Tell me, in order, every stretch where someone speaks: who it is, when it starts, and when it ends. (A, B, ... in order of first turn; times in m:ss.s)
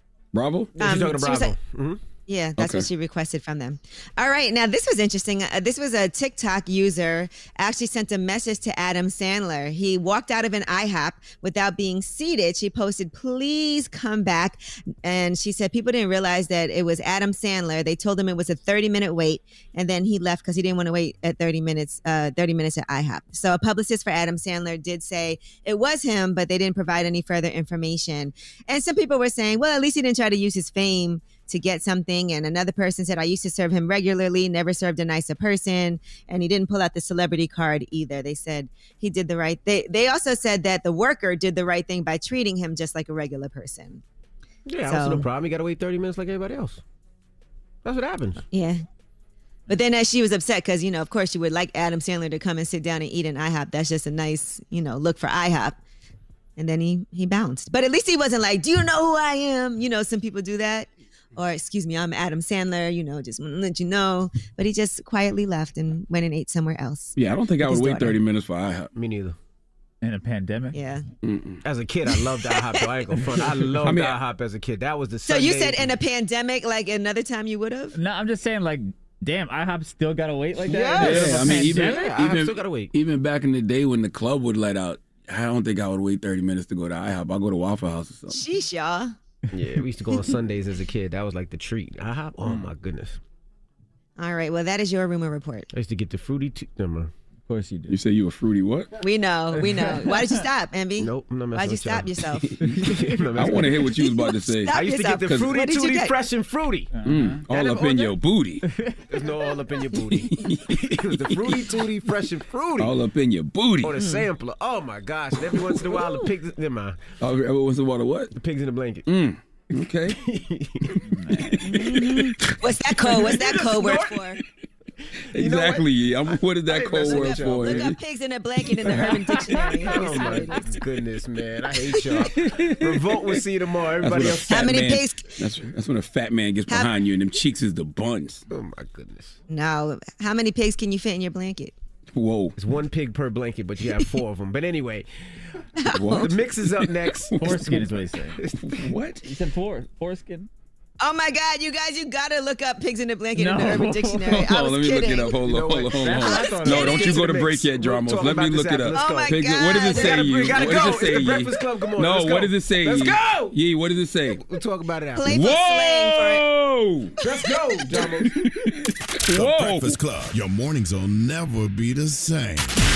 0:00.3-0:00.7 A
0:00.8-0:02.0 B
0:00.8-0:01.5 C
0:02.3-0:44.0 C
0:02.6-0:02.8 A
0:44.7-0:46.8 B
0:44.9-0:45.2 C
0:47.8-0:48.4 B
0:48.5-0:48.8 C
0:49.7-0:55.8 C
0:56.6-1:08.2 C
1:07.2-1:08.9 A
1:08.9-1:09.4 B
1:10.0-1:10.8 D
1:10.7-1:11.0 C
1:11.2-1:11.6 A
1:11.6-1:15.9 B
1:13.8-1:14.2 A
1:15.2-1:17.9 C
1:17.9-1:22.2 D
1:20.6-1:22.9 B
1:21.0-1:28.4 A
1:28.3-1:29.1 C
1:29.5-1:33.2 B
1:34.2-1:35.7 C
1:35.7-1:37.1 B
1:37.5-1:37.9 D
1:37.9-1:38.9 A
1:39.0-1:42.7 C
1:41.0-1:43.8 B
1:43.4-1:45.6 A
1:44.0-1:46.1 C
1:44.7-1:46.9 B
1:46.9-1:47.4 D
1:47.0-1:48.6 A
1:47.5-1:48.1 B
1:49.1-1:52.9 B
1:50.1-1:51.6 A
1:52.8-1:54.0 A
1:53.8-1:57.0 B
1:55.7-1:56.1 A
1:57.2-1:58.3 A
1:58.3-1:59.0 B
1:59.0-2:00.2 A
2:00.0-2:01.0 B
2:01.2-2:01.5 D
2:01.2-2:01.6 A
2:01.6-2:04.4 C
2:03.2-2:04.2 B
2:05.3-2:05.9 B
2:05.4-2:08.0 A
2:06.6-2:07.9 B
2:07.0-2:10.6 C
2:08.8-2:14.8 B
2:12.4-2:13.4 A
2:14.0-2:18.4 A
2:14.5-2:15.4 C
2:18.5-2:19.4 B
2:19.5-2:21.7 C
2:22.1-2:22.6 A
2:22.6-2:25.1 B
2:25.8-2:26.3 C
2:25.9-2:27.7 A
2:26.1-2:28.8 B
2:27.4-2:28.4 D
2:28.6-2:29.2 A
2:29.2-2:30.5 D
2:31.0-2:35.3 C
2:33.4-2:34.4 D
2:34.2-2:44.4 A
2:35.4-2:43.6 B
2:36.0-2:36.8 D
2:38.9-2:40.4 C
2:44.3-2:45.4 B
2:45.2-2:46.4 C
2:45.3-2:47.2 A
2:47.2-2:48.7 B
2:47.9-2:48.4 A
2:49.2-2:50.0 A
2:49.3-2:52.7 E